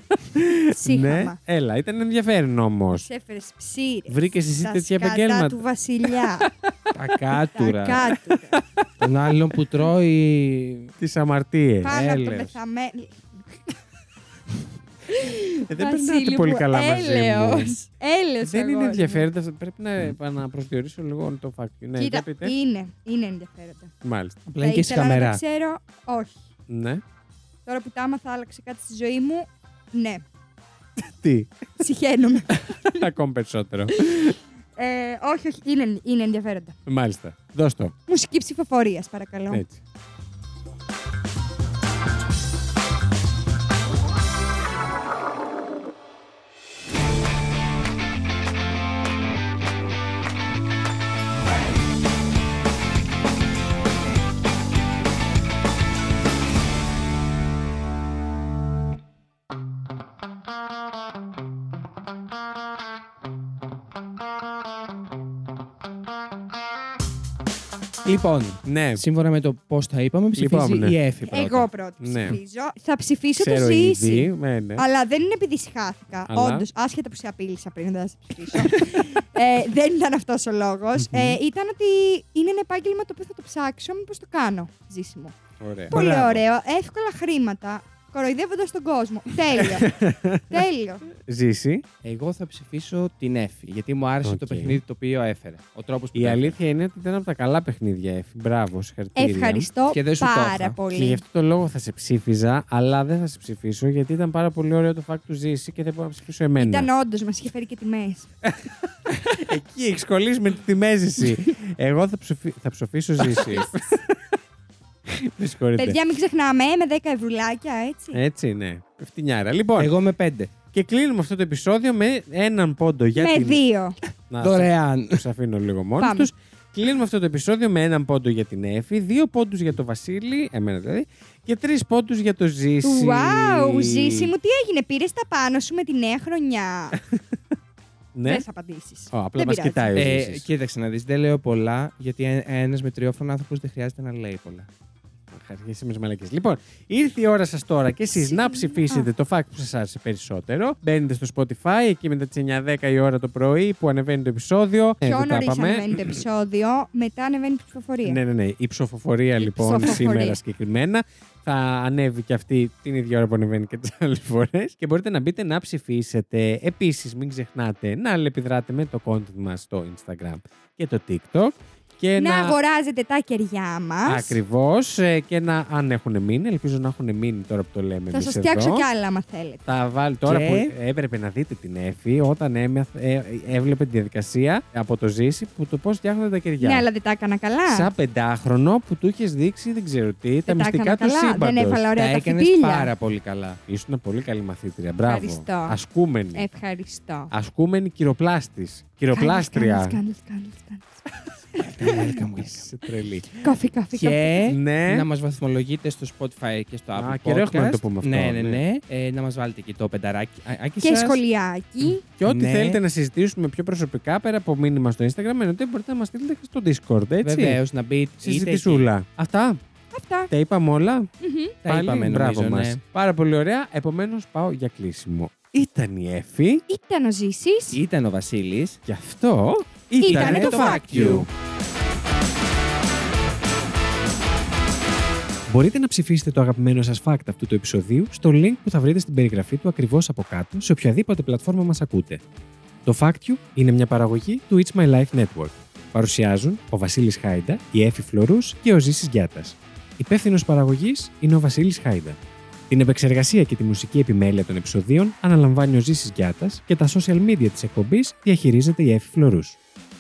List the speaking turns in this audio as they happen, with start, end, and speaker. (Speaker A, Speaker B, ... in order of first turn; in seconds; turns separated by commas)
Speaker A: 0.2-3.1, Speaker B: 0.7-1.4, Speaker B: 3.0-6.5, Speaker A: 4.1-6.3, Speaker C: 6.9-8.2, Speaker B: 7.5-8.6, Speaker C: 9.0-10.9, Speaker A: 11.0-12.0, Speaker B: 11.8-13.7, Speaker C: 11.9-12.6, Speaker B: 15.1-19.3, Speaker A: 15.7-17.8, Speaker A: 18.4-22.5, Speaker B: 22.0-23.9, Speaker A: 24.0-24.4, Speaker C: 24.5-25.4, Speaker B: 24.6-26.4, Speaker A: 26.7-27.0, Speaker B: 27.7-30.2, Speaker A: 31.0-31.5, Speaker B: 31.8-33.1, Speaker A: 32.6-34.4, Speaker B: 34.0-36.8, Speaker A: 36.9-38.0, Speaker B: 38.1-39.6, Speaker A: 39.5-39.8, Speaker C: 68.0-71.7, Speaker A: 68.6-69.0, Speaker A: 70.4-71.0, Speaker B: 71.3-85.3, Speaker A: 72.0-72.4, Speaker A: 73.4-74.8, Speaker A: 76.3-76.7, Speaker A: 78.5-79.0, Speaker A: 81.0-81.4, Speaker A: 85.6-86.4, Speaker B: 85.9-90.0, Speaker A: 89.6-90.6, Speaker B: 90.5-91.1, Speaker A: 91.2-91.8, Speaker C: 92.0-96.5, Speaker A: 94.2-94.8, Speaker A: 96.1-99.7, Speaker B: 99.2-101.2, Speaker C: 99.9-100.8, Speaker A: 100.9-106.9, Speaker B: 106.6-108.3, Speaker A: 108.4-108.7, Speaker A: 109.3-114.2, Speaker A: 115.1-116.0, Speaker B: 115.8-118.2, Speaker A: 118.1-119.9, Speaker C: 119.8-120.5, Speaker A: 120.7-123.6, Speaker B: 123.2-124.0, Speaker A: 124.3-134.3, Speaker C: 124.4-125.2, Speaker B: 126.0-126.3, Speaker B: 132.8-137.0, Speaker A: 138.2-138.4, Speaker B: 138.2-140.1, Speaker A: 139.1-140.5, Speaker C: 139.9-144.7, Speaker A: 145.3-156.2, Speaker B: 148.2-149.1, Speaker B: 155.0-158.2, Speaker A: 158.0-172.6, Speaker B: 159.4-160.4, Speaker B: 172.2-174.4, Speaker A: 174.1-178.9, Speaker B: 178.1-179.7, Speaker A: 179.7-186.9, Speaker C: 180.2-180.7, Speaker B: 186.6-187.9, Speaker A: 187.7-191.8, Speaker B: 190.5-192.9, Speaker C: 191.9-193.6, Speaker A: 193.7-196.5, Speaker B: 195.1-195.8, Speaker B: 196.3-197.3, Speaker A: 197.3-200.0, Speaker B: 199.1-201.0, Speaker B: 201.6-202.0, Speaker C: 201.7-202.7, Speaker A: 201.8-203.3, Speaker B: 203.3-204.4, Speaker C: 203.9-211.2, Speaker A: 204.4-205.1, Speaker A: 206.9-208.6, Speaker B: 210.8-212.0, Speaker A: 212.0-217.6, Speaker C: 212.2-212.8, Speaker C: 217.2-218.9, Speaker A: 218.2-219.6, Speaker B: 219.9-220.3, Speaker A: 220.3-221.1, Speaker B: 221.2-221.6, Speaker C: 221.6-222.8, Speaker A: 221.7-226.7, Speaker B: 226.7-227.8, Speaker C: 227.7-228.8, Speaker A: 228.9-231.3, Speaker B: 230.0-231.2, Speaker C: 230.0-231.3, Speaker A: 235.5-242.2, Speaker A: 242.8-252.2, Speaker A: 252.7-259.6